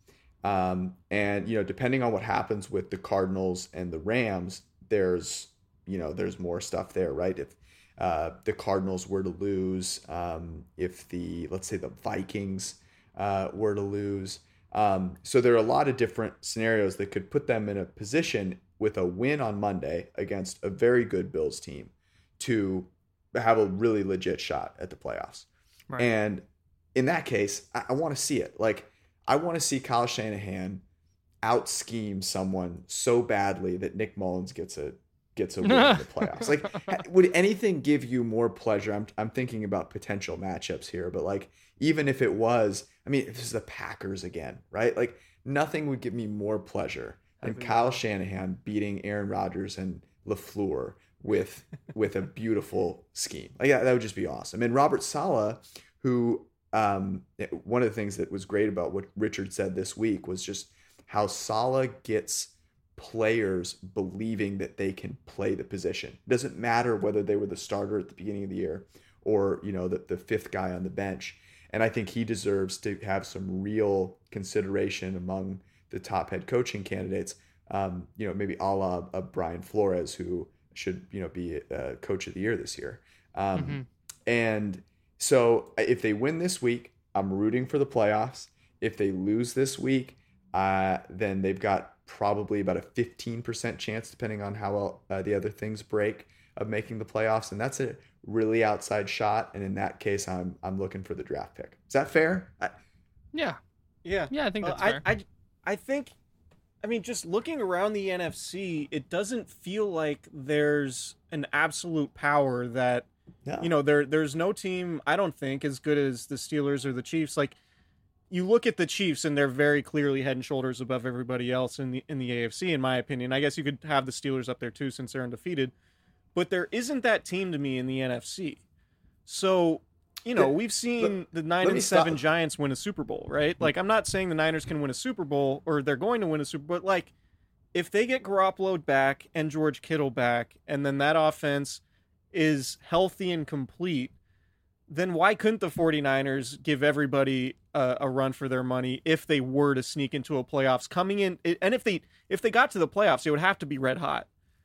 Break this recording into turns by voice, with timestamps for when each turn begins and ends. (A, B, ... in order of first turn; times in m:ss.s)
0:00.4-0:30.8 A
0:31.4-1:42.8 A
0:35.6-0:36.7 B
0:47.4-0:47.9 C
1:23.5-1:23.9 B
1:43.3-1:43.6 B
1:44.0-1:46.1 C
1:44.3-1:45.0 B
1:46.8-1:53.1 C
1:53.4-1:53.7 A
1:53.6-1:57.6 C
1:58.3-2:05.7 C
2:06.3-2:08.6 C
2:09.2-2:17.1 C
2:10.3-2:12.2 A
2:17.7-2:24.1 C
2:24.9-2:34.3 C